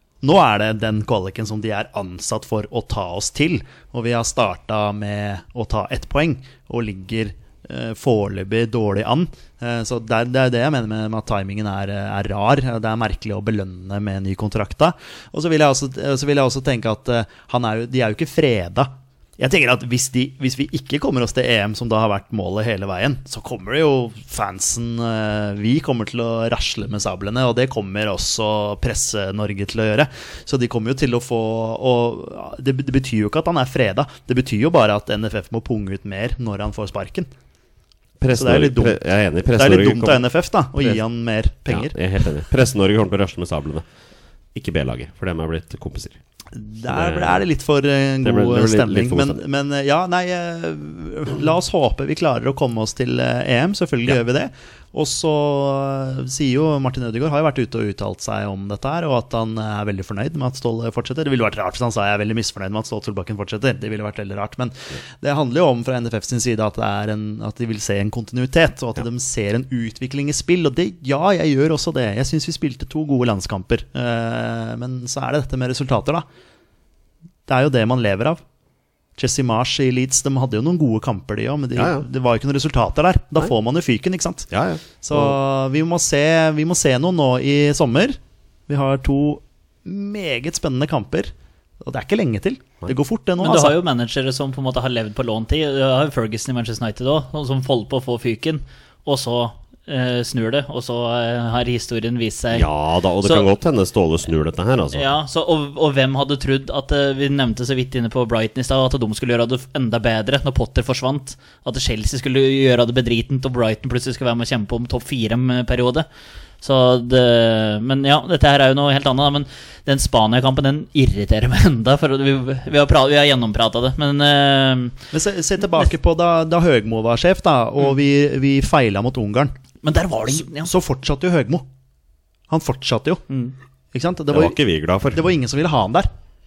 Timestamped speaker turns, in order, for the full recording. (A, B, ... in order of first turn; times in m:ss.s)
0:00.2-0:37.3 A
0:38.2-0:40.2 B
0:38.4-0:39.0 A
0:39.6-0:42.0 A
0:41.7-0:43.8 B
0:44.6-0:46.2 B
0:46.6-1:16.2 A
0:46.9-0:47.4 B
0:48.2-0:49.4 B
1:17.5-1:18.4 A
1:19.2-1:24.5 A
1:21.8-1:22.0 B
1:24.5-1:25.4 B
1:25.0-1:31.3 A
1:31.8-1:33.8 A
1:33.4-1:42.7 C
1:42.5-1:45.1 B
1:43.2-1:43.5 C
1:44.9-1:56.1 C
1:56.6-2:05.0 C
2:05.1-2:09.5 A
2:09.8-2:10.7 C
2:10.5-2:11.6 A
2:12.5-2:13.2 A
2:13.9-2:14.6 A
2:14.3-2:15.2 B
2:15.1-2:16.1 A